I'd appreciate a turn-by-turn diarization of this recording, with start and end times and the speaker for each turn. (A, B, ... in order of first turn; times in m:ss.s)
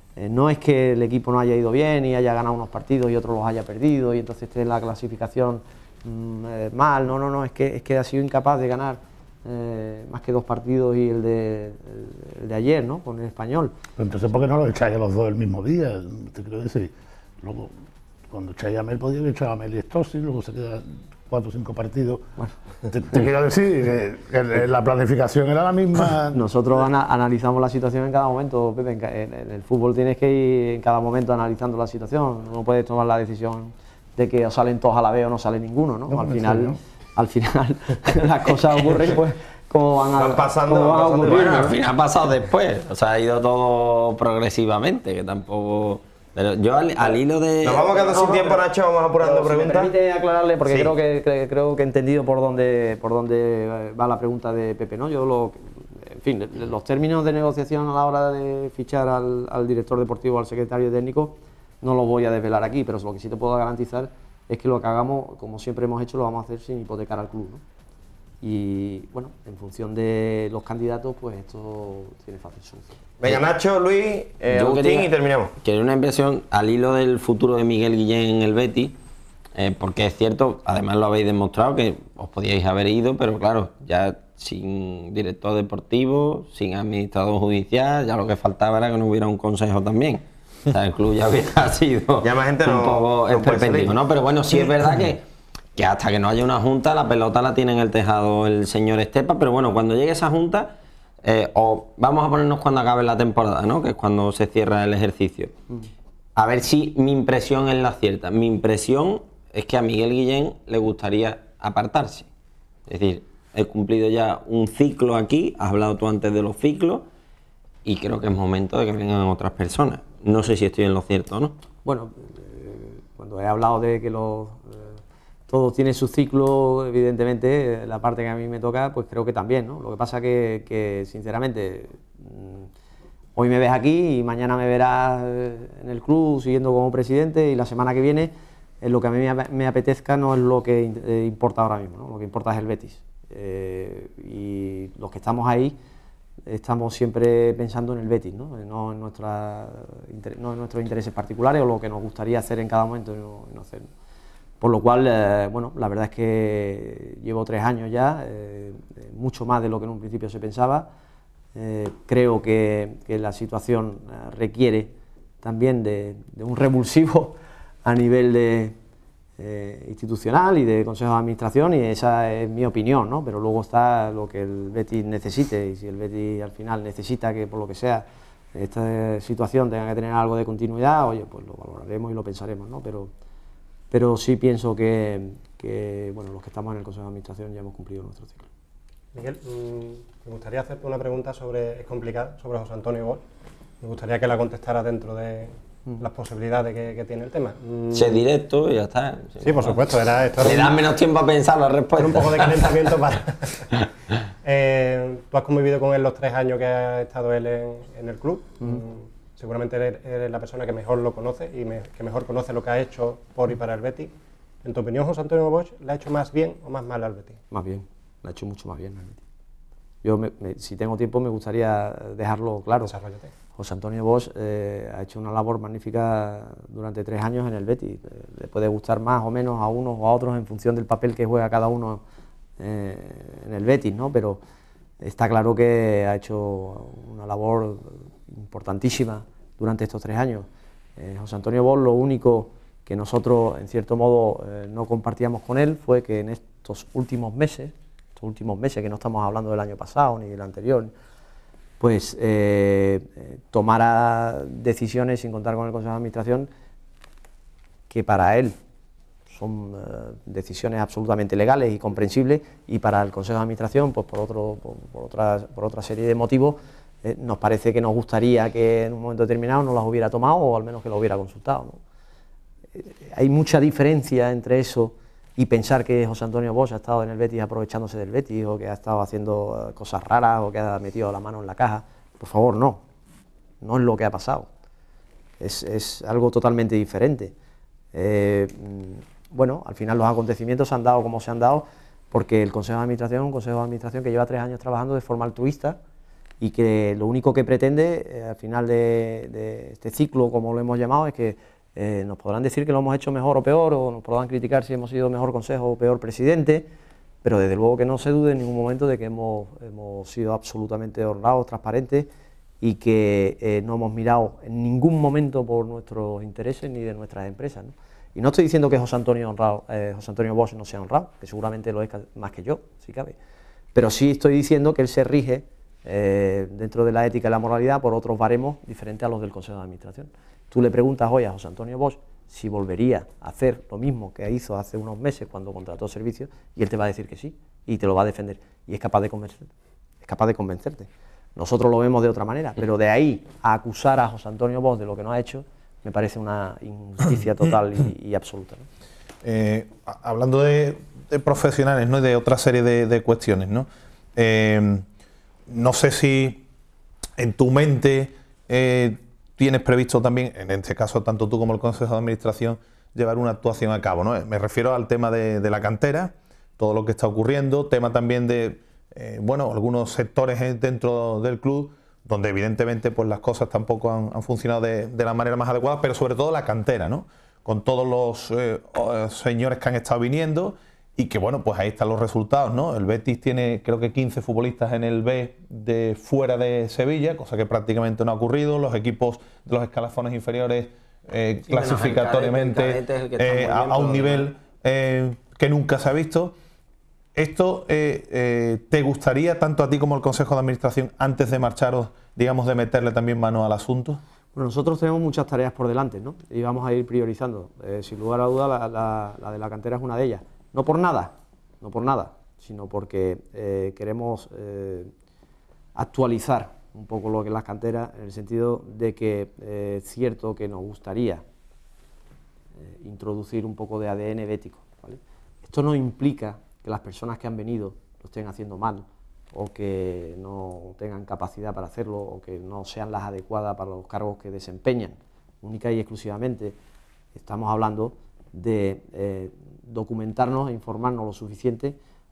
0:00.2-0:13.7 A
0:14.0-0:17.7 B
0:18.3-0:22.4 B
0:22.9-0:26.4 B
0:26.3-0:41.7 A
0:36.1-0:36.8 B
0:40.2-0:41.7 C
0:41.2-0:47.9 D
0:47.6-0:49.9 C
0:47.9-1:07.6 A
0:50.7-0:50.9 C
1:08.4-1:13.0 A
1:13.2-1:15.5 C
1:14.5-1:18.9 D
1:19.5-1:35.2 D
1:32.2-1:34.0 C
1:35.8-1:45.6 D
1:46.4-1:52.3 D
1:52.9-1:57.0 D
1:57.8-2:01.6 D
2:01.8-2:12.7 A
2:13.4-2:25.8 A
2:26.4-2:33.9 A
2:34.6-2:40.9 A
2:41.5-2:48.8 A
2:49.4-3:03.1 A
3:03.9-3:08.5 A
3:09.1-3:13.2 E
3:13.8-3:18.2 E
3:17.9-3:23.0 D
3:19.4-3:20.8 E
3:22.0-3:23.8 E
3:24.4-3:34.1 E
3:34.6-3:37.4 E
3:37.5-3:39.2 A
3:40.0-3:42.9 A
3:42.8-3:43.3 E
3:43.5-3:52.0 A
3:52.6-3:54.4 A
3:55.0-4:10.9 A
4:11.8-4:16.5 A
4:17.9-4:18.6 A
4:19.3-4:31.8 A
4:32.7-4:42.8 A
4:43.6-4:44.5 A
4:45.4-4:47.3 A
4:47.9-4:55.8 A
4:56.4-5:06.7 A
5:07.2-5:12.1 A
5:12.6-5:23.2 A
5:23.7-5:39.5 A
5:40.0-5:48.7 A
5:49.2-5:54.8 F
5:55.5-5:56.4 F
5:57.2-6:36.3 F
6:31.5-6:34.3 D
6:37.1-6:44.0 F
6:44.3-6:54.9 A
6:55.7-7:01.2 A
7:02.6-7:16.6 A
7:17.1-7:21.8 A